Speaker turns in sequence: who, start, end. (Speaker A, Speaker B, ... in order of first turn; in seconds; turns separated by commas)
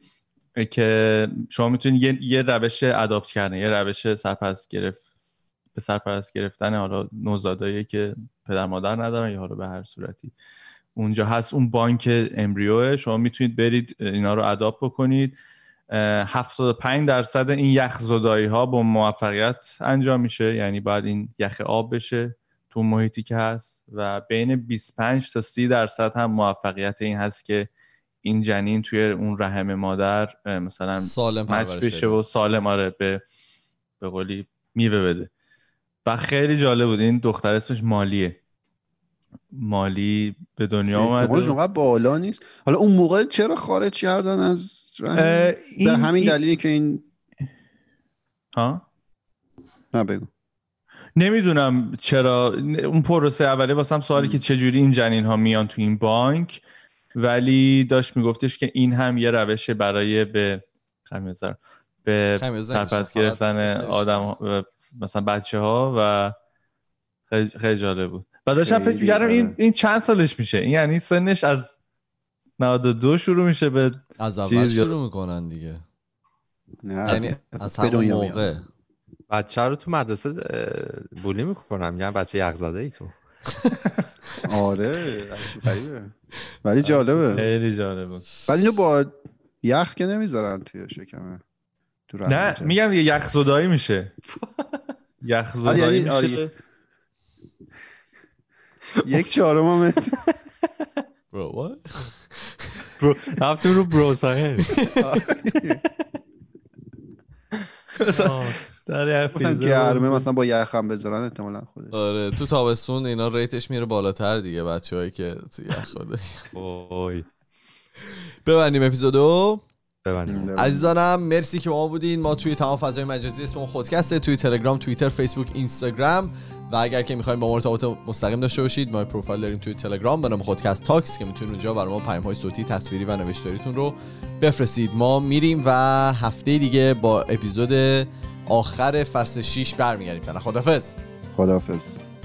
Speaker A: 0.6-5.0, Speaker A: 5.8-10.3, Speaker A: 11.0-15.4, Speaker A: 15.9-27.7, Speaker A: 28.2-33.2, Speaker B: 31.0-32.2, Speaker A: 34.0-35.3, Speaker A: 36.1-38.4, Speaker A: 39.5-41.6, Speaker C: 40.9-47.0, Speaker A: 45.2-46.4, Speaker A: 48.5-48.9, Speaker C: 49.9-50.3, Speaker A: 51.2-56.6, Speaker A: 57.1-66.3, Speaker B: 62.4-64.3, Speaker A: 67.3-71.8, Speaker C: 68.6-69.6, Speaker A: 72.6-74.9, Speaker B: 74.2-75.8, Speaker C: 76.8-78.5, Speaker B: 77.1-78.7, Speaker D: 79.3-83.2, Speaker C: 84.4-86.1, Speaker C: 86.6-87.5, Speaker A: 87.3-88.3, Speaker C: 88.5-91.4, Speaker C: 92.1-92.8, Speaker A: 92.3-94.1, Speaker A: 95.2-96.5, Speaker C: 95.7-96.4, Speaker C: 99.0-100.2, Speaker B: 101.3-102.8, Speaker D: 103.0-104.8, Speaker B: 104.7-105.0, Speaker C: 105.0-105.8, Speaker A: 108.0-110.3, Speaker D: 108.1-108.6, Speaker C: 109.3-111.9, Speaker B: 111.9-116.5, Speaker D: 116.5-117.3, Speaker B: 118.4-119.6, Speaker D: 120.0-120.5, Speaker C: 120.3-120.9, Speaker B: 120.6-141.0, Speaker C: 141.3-142.0